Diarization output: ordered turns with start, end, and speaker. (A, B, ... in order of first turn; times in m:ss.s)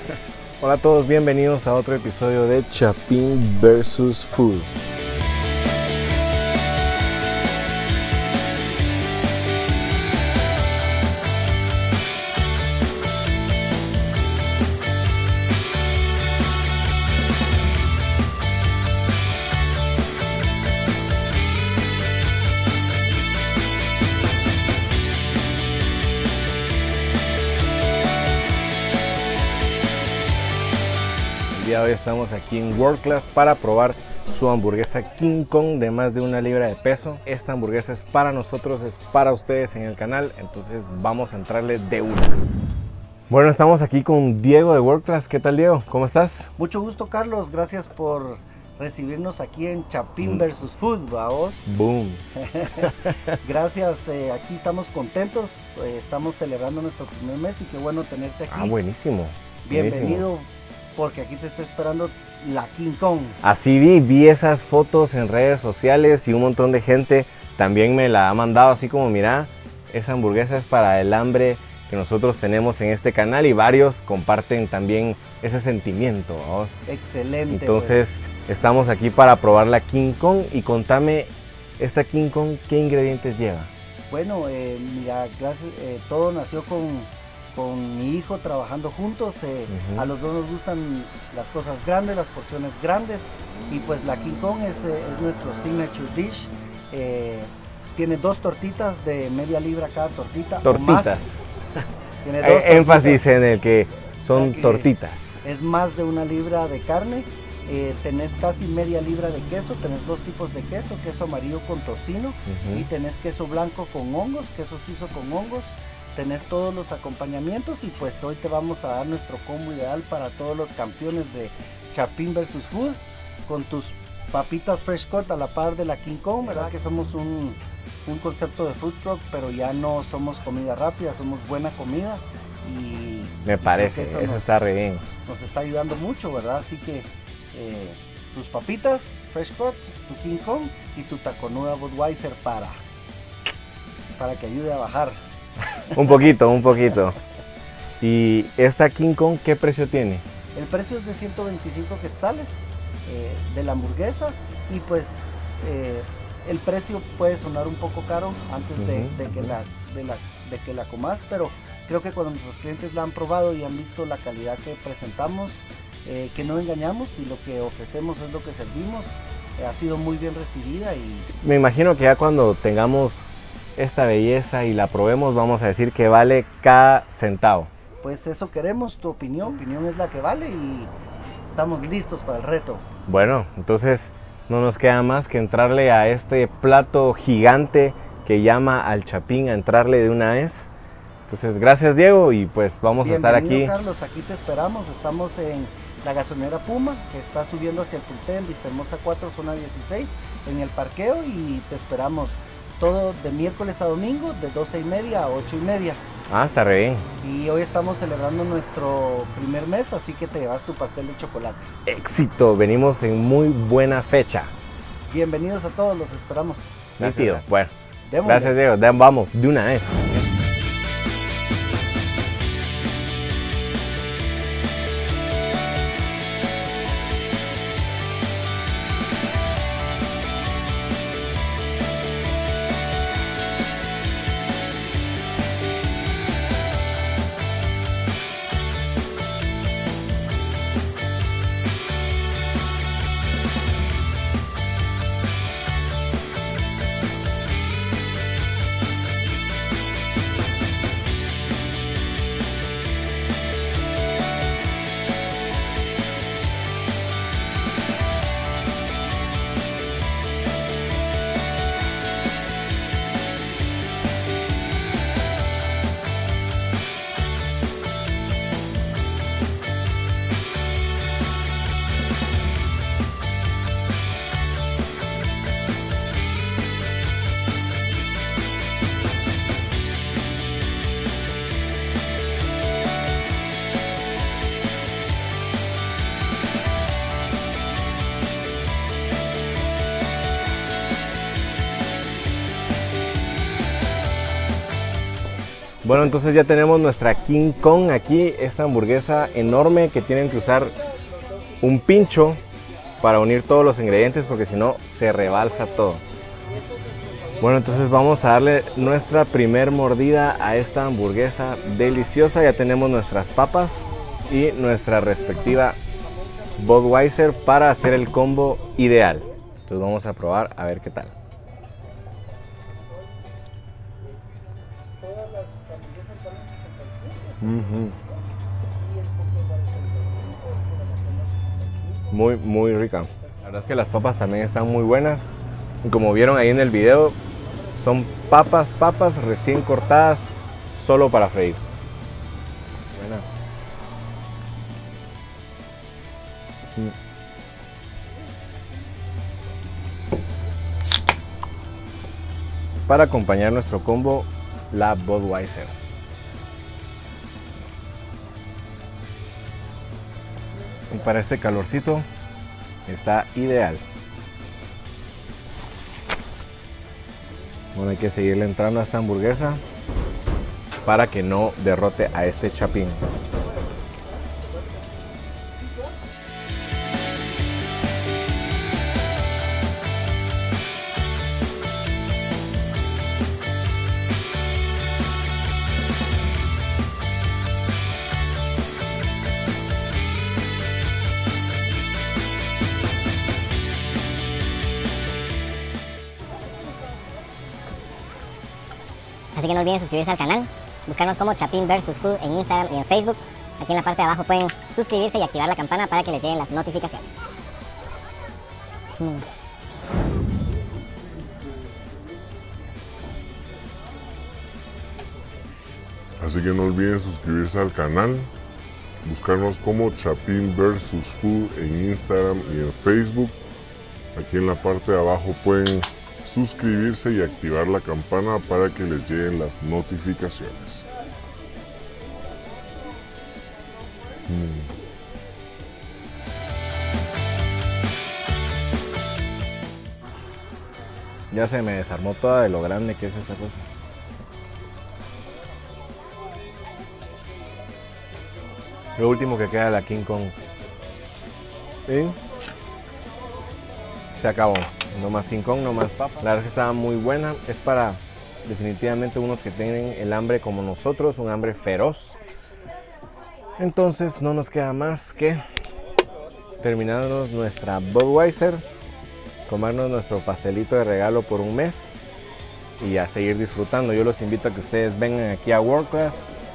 0:00.6-0:04.7 A
0:31.5-0:42.4 A
0:43.3-0:46.5 A
0:46.6-0:51.7 B
0:51.7-0:52.2 A
0:52.3-0:58.8 B
0:58.5-1:00.2 A
0:59.6-1:03.4 B
1:03.4-1:16.8 A
1:16.9-1:18.0 B
1:17.5-1:23.7 A
1:24.1-1:41.2 B
1:29.7-1:30.1 A
1:40.6-1:41.4 A
1:42.2-1:43.2 B
1:42.4-1:45.4 A
1:44.3-1:44.9 B
1:45.4-2:14.5 B
1:52.5-1:52.9 A
2:13.4-2:15.0 A
2:15.2-2:22.8 B
2:24.2-2:25.2 B
2:25.9-2:27.2 A
2:28.0-2:30.2 A
2:30.5-2:51.3 B
2:38.8-2:39.5 A
2:51.2-2:57.7 A
2:58.0-3:00.9 B
3:01.5-3:02.8 B
3:03.1-3:10.7 A
3:11.3-3:13.7 A
3:13.0-3:26.0 B
3:26.3-3:27.1 A
3:27.2-3:31.7 B
3:31.8-3:34.5 A
3:35.1-3:37.4 B
3:37.0-3:37.7 A
3:38.0-3:38.6 B
3:38.2-3:40.2 A
4:55.8-5:00.8 A
5:01.6-5:02.4 A
5:03.0-5:06.0 A
5:06.5-5:07.4 B
5:07.4-5:15.8 A
5:16.6-5:21.1 A
5:25.0-5:28.1 B
5:27.4-5:28.0 A
5:28.8-5:32.1 B
5:32.1-5:35.3 A
5:35.8-5:37.2 A
5:37.8-5:41.6 A
5:42.9-5:43.2 A
5:52.8-5:55.7 A
6:00.9-6:02.0 A
6:02.9-6:03.8 A
6:07.7-6:09.6 A
6:10.8-6:13.0 A
6:39.3-6:47.2 C
6:56.2-6:58.3 D
6:59.0-7:03.4 D
7:04.1-7:10.9 D
7:14.3-7:14.7 D
7:21.3-7:23.6 A
7:29.0-7:30.3 A
7:31.9-7:32.2 A
7:34.1-7:42.2 A
7:43.6-7:45.4 A
7:46.6-7:48.6 A
7:49.5-7:52.0 A
7:52.8-7:56.2 A